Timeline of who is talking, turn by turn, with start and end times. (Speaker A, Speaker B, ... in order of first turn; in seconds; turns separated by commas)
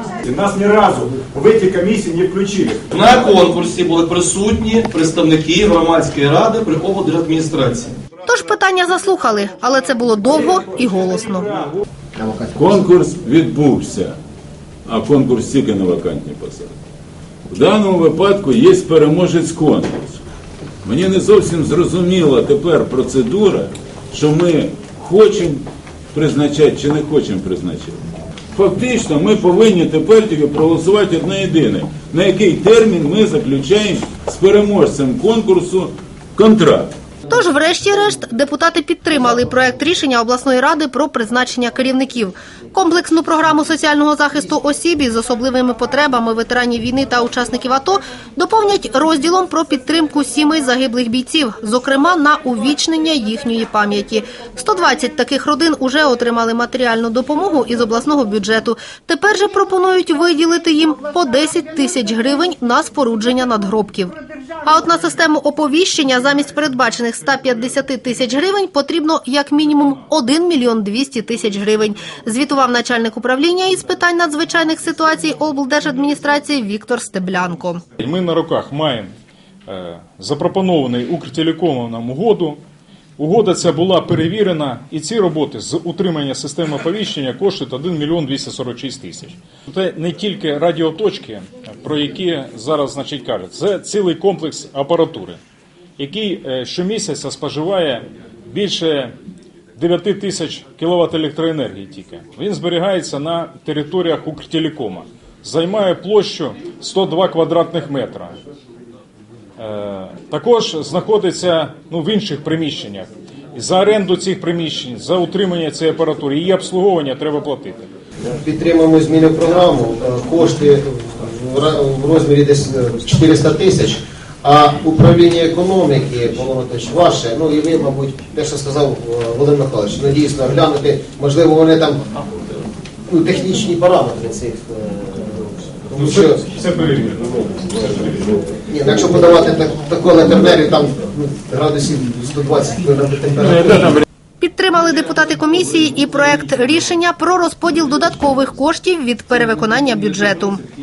Speaker A: 0.2-3.4, Speaker B: 2.9-8.0, Speaker C: 8.2-11.5, Speaker A: 10.3-11.7, Speaker D: 12.5-14.2, Speaker D: 14.9-16.7, Speaker D: 17.5-20.2, Speaker D: 20.8-28.0, Speaker D: 28.5-36.9, Speaker C: 37.3-77.8, Speaker E: 78.0-79.1, Speaker E: 79.7-82.6, Speaker E: 83.2-95.4, Speaker E: 96.0-99.1, Speaker E: 99.8-108.4, Speaker E: 109.6-117.9, Speaker F: 118.3-132.0, Speaker F: 133.1-136.5, Speaker E: 136.0-138.4, Speaker F: 138.6-144.0, Speaker C: 144.4-150.6